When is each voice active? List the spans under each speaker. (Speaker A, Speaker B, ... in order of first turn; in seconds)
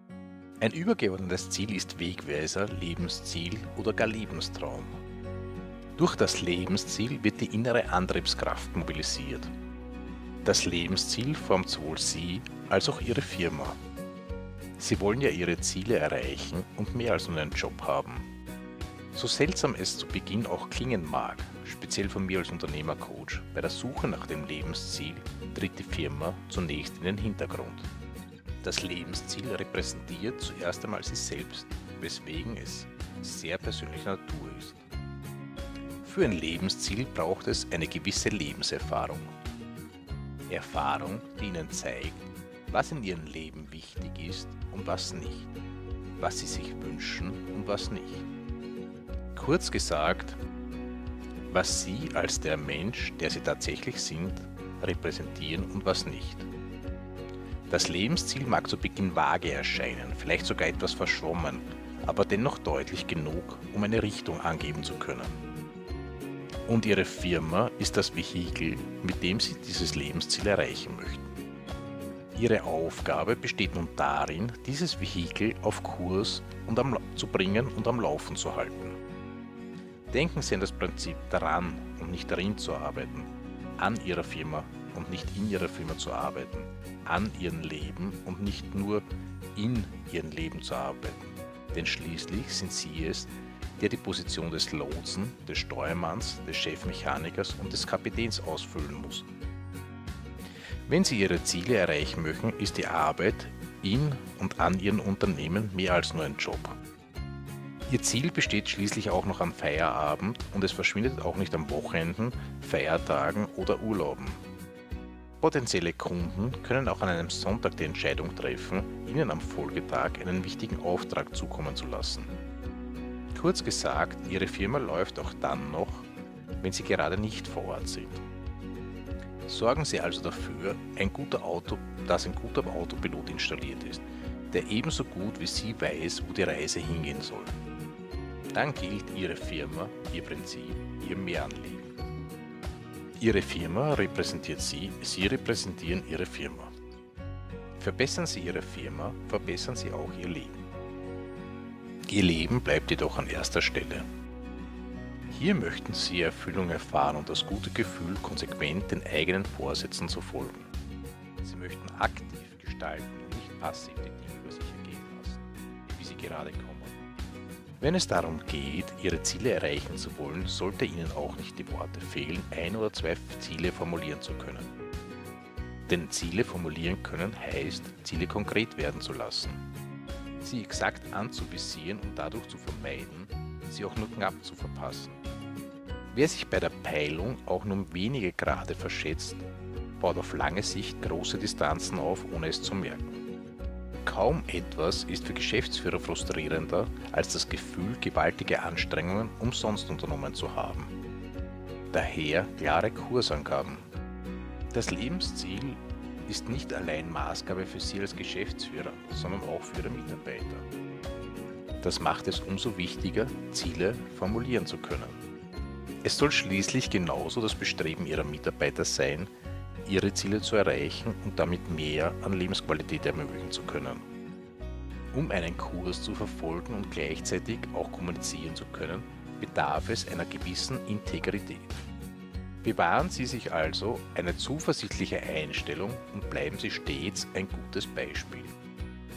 Speaker A: 0.6-4.9, 6.0-9.5, 10.4-13.8, 14.8-18.3, 19.1-27.9, 28.6-34.8, 36.0-39.3, 40.5-45.5, 46.2-48.3, 49.4-50.4, 51.5-56.5, 57.7-65.3, 66.7-71.2, 72.3-79.0, 80.1-89.0, 89.5-99.3, 100.9-106.8, 107.9-114.4, 115.4-122.3, 123.3-126.1, 126.6-128.2, 129.5-137.6, 138.5-141.9, 143.2-146.7, 147.8-150.6, 152.1-154.1, 155.3-160.7, 161.4-166.9, 167.8-174.7, 175.9-179.6, 180.4-185.2, 186.1-189.4, 190.0-193.2, 194.1-200.9, 201.9-203.9, 204.7-210.7, 211.8-215.2, 216.0-219.3, 219.9-224.0, 225.1-231.8, 232.6-238.5